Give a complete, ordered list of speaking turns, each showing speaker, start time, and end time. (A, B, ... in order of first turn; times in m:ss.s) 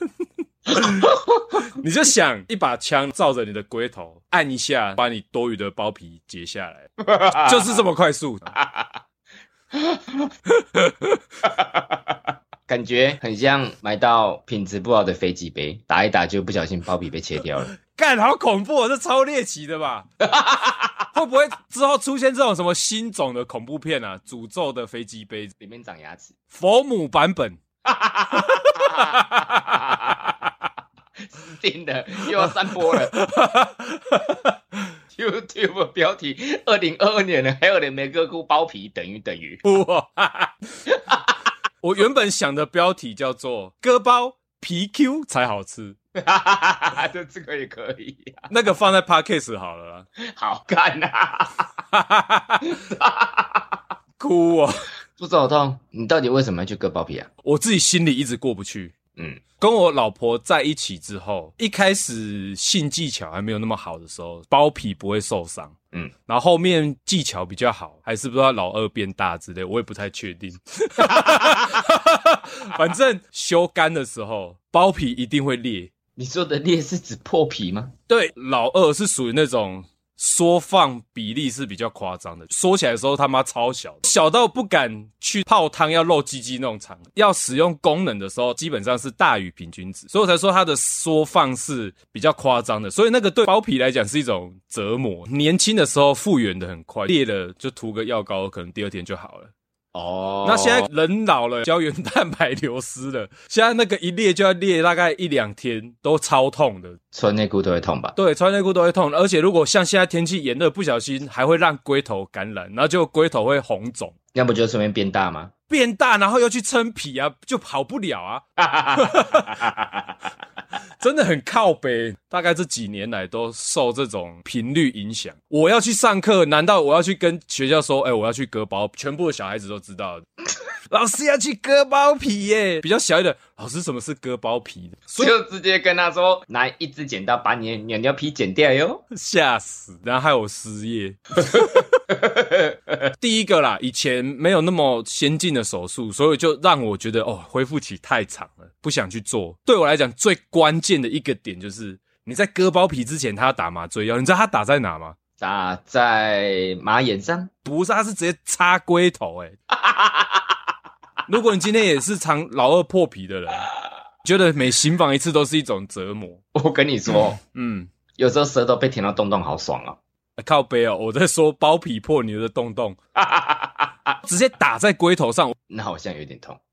0:00.7-0:08.5 A
0:00.7-0:01.7 B
0:07.0-0:07.8 B
0:08.6-0:08.9 B
0:09.7-0:10.3 B
0:10.5-0:11.2 A
0:11.4-0:12.2 B
0:12.7-0:17.7 B
0:17.4-0:20.1 A
0:20.2-0:21.0 B
0:21.1-0:25.5 A
0:25.6-0:26.4 B
0:26.5-0:27.6 A
0:27.8-0:30.4 B
0:28.4-0:29.8 A
0:31.2-0:33.1 B
0:32.3-0:34.9 A
0:35.1-0:39.6 B
0:39.6-0:40.6 A
0:40.8-0:41.4 B
0:41.8-0:46.0 A
0:46.2-0:48.5 B
0:48.5-0:50.1 A
0:50.2-0:51.7 B
0:51.9-0:52.8 A
0:52.6-0:53.8 B
0:54.2-0:54.9 A
0:55.2-0:57.3 B
0:57.4-0:59.0 A
0:59.1-0:59.5 B
0:59.6-1:15.9 A
1:11.0-1:11.8 B
1:16.2-1:17.9 B
1:18.1-1:39.5 A
1:39.9-1:40.9 B
1:40.4-1:47.0 A
1:47.1-1:48.2 B
1:48.2-1:54.2 A
1:54.3-1:55.5 B
1:55.7-1:59.7 A
1:58.6-2:00.1 B
2:01.0-2:10.2 A
2:10.9-2:15.4 A
2:15.2-2:19.0 B
2:19.1-2:22.0 A
2:22.1-2:23.1 B
2:23.2-2:35.2 A
2:35.4-2:37.5 B
2:37.6-2:39.6 A
2:39.7-2:40.5 B
2:41.3-2:43.7 A
2:44.2-2:46.4 A
2:46.5-2:47.4 B
2:47.4-2:47.9 A
2:48.2-2:50.0 B
2:50.4-2:53.0 A
2:53.2-2:54.2 B
2:54.2-2:55.6 A
2:55.7-2:56.6 B